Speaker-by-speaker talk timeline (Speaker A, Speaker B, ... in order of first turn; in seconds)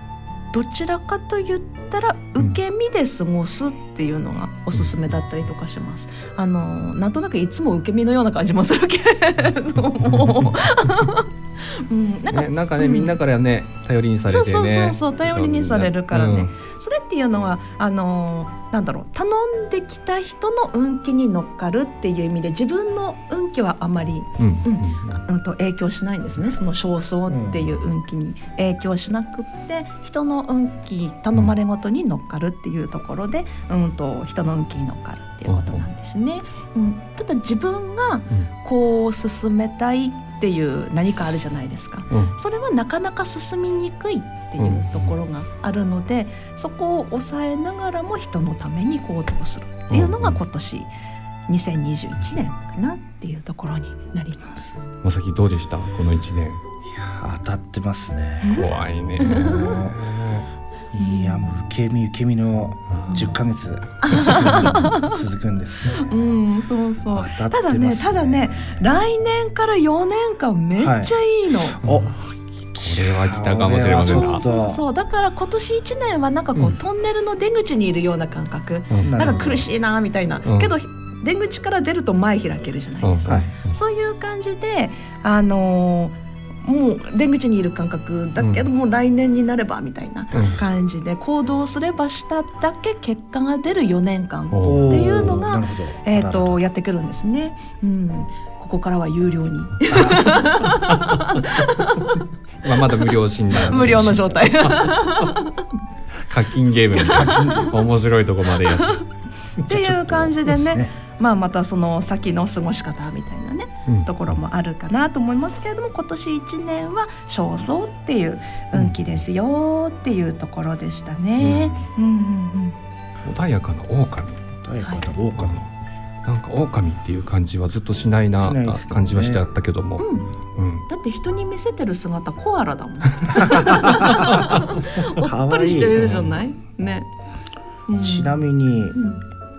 Speaker A: 0.5-13.2, 14.3-50.9, 51.5-54.7, 58.4-59.8, 61.0-61.5, 64.0-65.2, 65.9-71.8, 73.8-102.2, 103.5-105.7, 106.9-107.7, 108.7-109.0, 109.6-122.8, 130.0-130.3, 130.9-137.1, 137.9-138.4, 138.9-139.2
Speaker B: 10.0-11.0, 12.3-16.5, 24.4-25.2, 35.5-35.8, 44.6-45.1, 49.9-50.4, 55.0-56.6, 58.5-60.4, 62.9-63.3, 64.4-64.8, 71.9-72.2, 72.7-74.4, 78.9-79.3, 80.4-80.7, 83.0-83.8, 88.4-88.7, 90.3-90.6, 94.5-95.0, 100.7-101.3, 102.6-105.3, 106.3-109.0, 121.4-121.8, 123.2-124.5, 126.2-130.8, 136.0-136.4
Speaker C: 27.3-27.7, 56.9-60.0, 60.9-66.4, 67.1-68.8, 70.8-71.1, 71.7-72.1, 72.8-74.8, 79.0-79.6, 83.3-83.5, 94.6-96.6, 99.9-100.3, 103.5-104.4, 107.1-107.8, 109.7-110.9, 124.6-125.6, 128.4-129.4, 133.4-134.5, 135.1-136.1, 137.9-139.0